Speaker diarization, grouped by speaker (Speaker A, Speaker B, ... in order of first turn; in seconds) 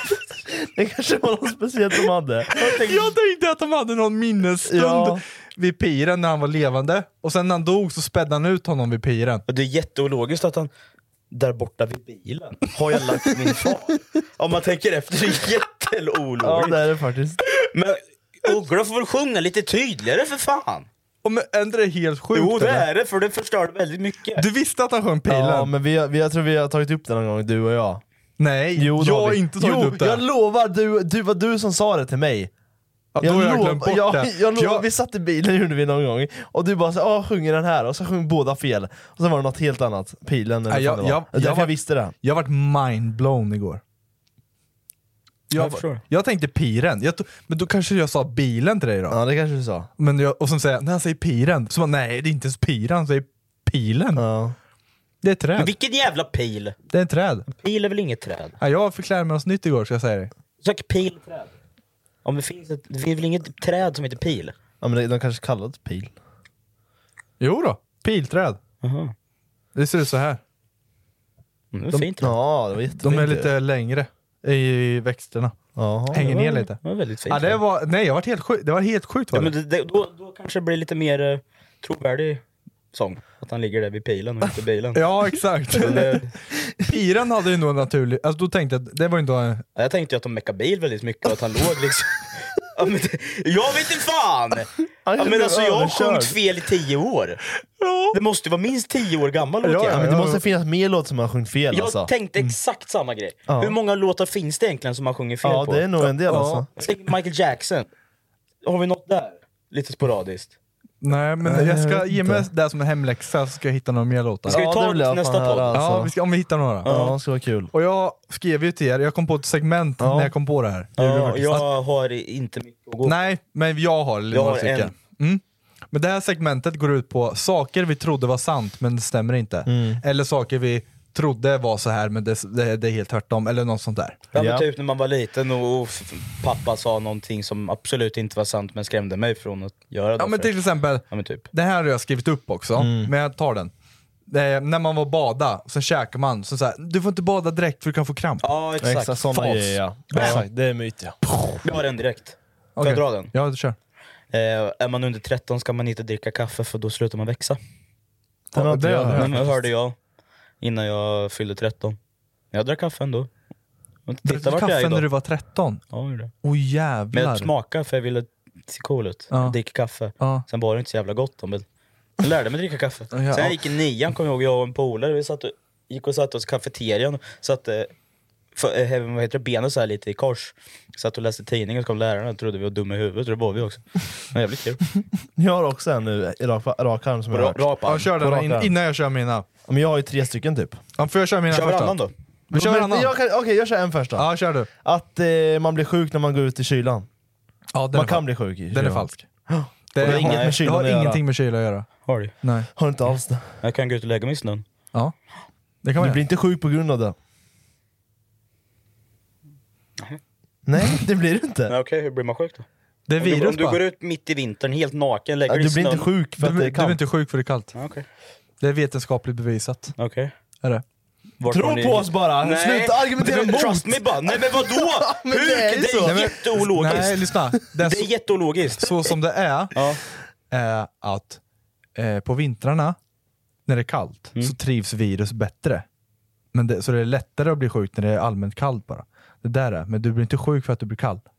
Speaker A: 0.5-2.7, 4.7-5.2, 16.4-17.4, 25.3-28.0, 28.8-32.5, 33.2-42.1, 49.1-49.9, 54.1-54.5, 64.8-66.1, 72.2-73.5, 75.8-76.3, 95.0-96.3, 99.9-102.1, 103.5-103.8, 105.4-106.7, 111.4-112.5, 114.5-116.1, 116.8-117.7, 120.0-120.3, 129.7-130.0, 134.3-134.7, 142.8-143.1, 148.8-151.2, 158.5-159.4, 185.4-188.7, 189.7-190.8, 192.5-194.3, 194.8-197.1, 197.9-201.2, 202.8-203.4, 206.0-207.1, 210.7-211.7, 215.5-217.0, 221.5-226.3
Speaker B: 2.5-3.1, 9.5-10.7, 11.3-16.8, 17.5-20.9, 22.3-24.4, 45.5-46.0, 55.5-56.8, 57.5-58.6, 60.6-61.5, 62.2-64.5, 68.8-69.1, 71.7-72.3, 76.2-77.6, 79.3-85.0, 85.7-86.3, 89.8-97.4, 98.1-100.1, 101.7-105.9, 106.8-107.9, 108.6-110.5, 114.5-115.7, 116.8-117.1, 121.0-123.1, 124.3-124.9, 134.3-140.6, 141.1-141.5, 148.4-150.4, 151.6-153.3, 154.3-157.6, 159.1-159.9, 160.6-162.0, 162.5-163.3, 164.1-165.0, 165.9-166.3, 167.1-171.6, 172.2-177.9, 178.5-184.8, 187.3-188.1, 191.5-192.1, 200.0-200.6, 202.1-202.3, 203.6-204.6, 211.7-212.7, 213.2-216.1, 217.7-218.0, 220.0-220.3, 221.4-229.1, 229.7-230.0
Speaker C: 2.7-9.4, 21.2-22.9, 24.4-25.7, 28.4-30.2, 33.1-34.8, 40.7-43.8, 45.5-49.2, 50.0-54.2, 55.2-55.7, 56.9-57.5, 58.6-60.3, 67.4-68.6, 69.8-70.4, 73.0-75.5, 76.1-79.5, 84.9-86.2, 86.8-89.6, 97.8-98.2, 99.6-100.4, 106.3-106.7, 111.0-114.6, 115.7-116.9, 117.7-121.7, 123.0-134.2, 140.2-143.7, 144.3-148.4, 150.1-150.4, 152.8-153.8, 158.6-159.6, 164.2-165.8, 166.4-167.5, 169.3-169.6, 170.2-170.4, 173.1-173.6, 187.8-189.4, 191.0-192.0, 192.5-193.1, 194.2-194.7, 197.7-199.2, 199.9-201.9, 202.4-202.7, 205.8-206.2, 213.1-213.8, 216.4-217.7, 218.6-219.9, 226.0-228.1, 228.8-229.8, 230.5-231.4, 231.9-233.0, 233.7-235.8, 236.5-241.2